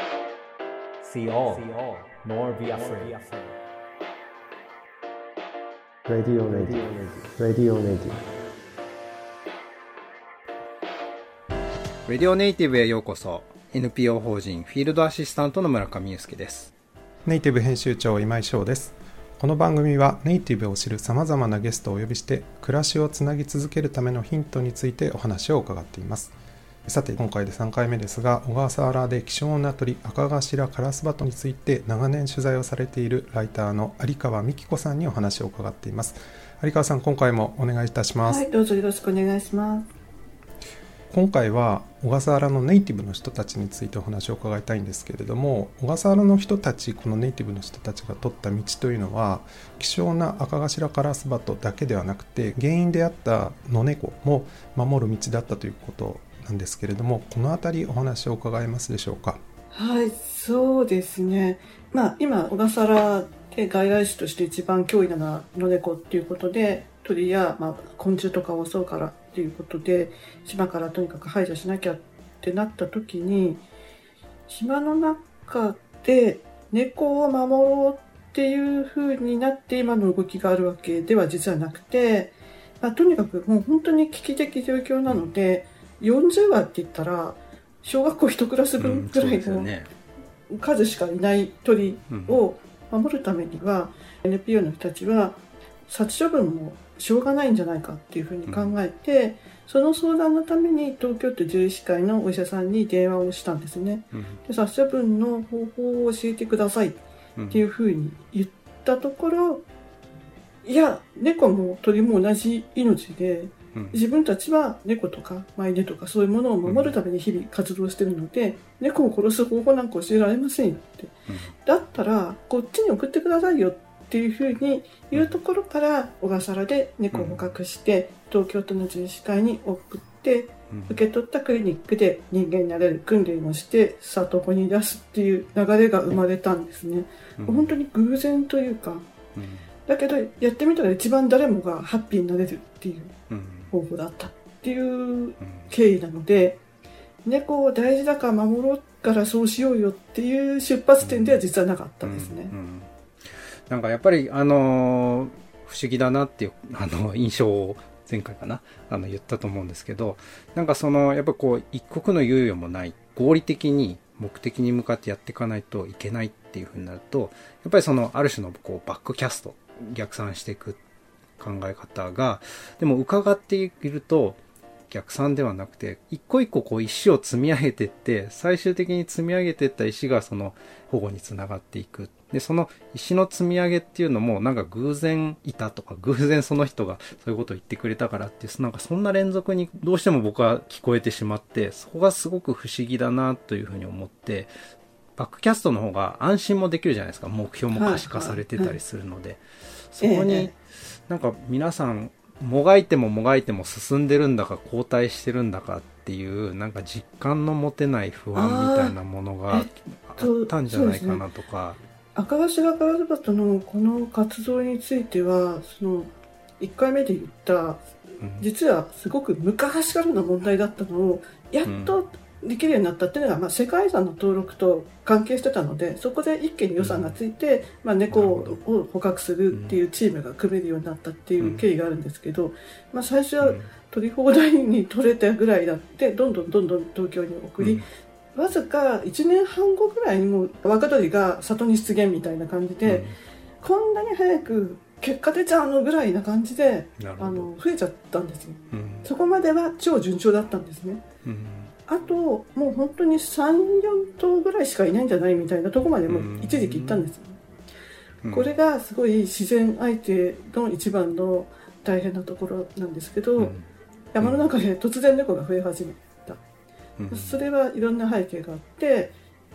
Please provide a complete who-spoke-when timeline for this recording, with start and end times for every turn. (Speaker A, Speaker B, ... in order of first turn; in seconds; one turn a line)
Speaker A: 1.0-3.5
Speaker B: 1.3-1.6
Speaker B: 2.7-3.2
Speaker C: 6.0-8.2
Speaker A: 6.5-7.0
Speaker B: 12.1-16.7
Speaker C: 17.2-26.3
Speaker C: 26.9-38.4
Speaker D: 38.2-39.9
Speaker C: 41.1-59.4
Speaker D: 59.7-73.6
Speaker D: 74.5-89.7
Speaker B: 88.8-89.9
Speaker D: 90.5-109.6
Speaker B: 92.1-92.4
Speaker B: 98.5-98.8
Speaker B: 104.1-104.4
Speaker B: 107.4-107.6
Speaker D: 110.6-139.1
Speaker B: 116.6-116.9
Speaker B: 127.1-127.5
Speaker B: 130.7-131.0
Speaker B: 137.4-137.7
Speaker B: 139.3-139.7
Speaker D: 139.8-143.1
Speaker B: 143.3-143.7
Speaker D: 143.7-146.6
Speaker B: 145.4-145.7
Speaker D: 147.2-152.5
Speaker B: 151.0-151.4
Speaker B: 152.0-152.9
Speaker B: 153.7-170.8
Speaker B: 171.4-174.4
Speaker B: 174.9-194.5
Speaker B: 195.2-200.6
Speaker D: 197.7-198.8
Speaker D: 200.0-200.5
Speaker B: 201.1-211.8
Speaker D: 208.3-208.9
Speaker D: 209.5-211.2
Speaker D: 212.1-217.8
Speaker D: 218.4-243.1
Speaker B: 221.6-222.0
Speaker B: 226.8-227.1
Speaker B: 228.1-228.6
Speaker B: 229.5-229.8
Speaker B: 231.4-231.7
Speaker B: 233.4-233.7
Speaker B: 237.6-237.8
Speaker B: 242.8-243.2
Speaker D: 243.6-251.0
Speaker B: 247.0-247.5
Speaker B: 248.7-249.1
Speaker B: 251.2-251.7
Speaker D: 251.9-257.4
Speaker B: 256.1-257.1
Speaker B: 258.2-258.5
Speaker D: 258.3-263.6
Speaker B: 263.4-263.7
Speaker D: 264.1-266.4
Speaker B: 267.0-267.4
Speaker D: 267.1-269.1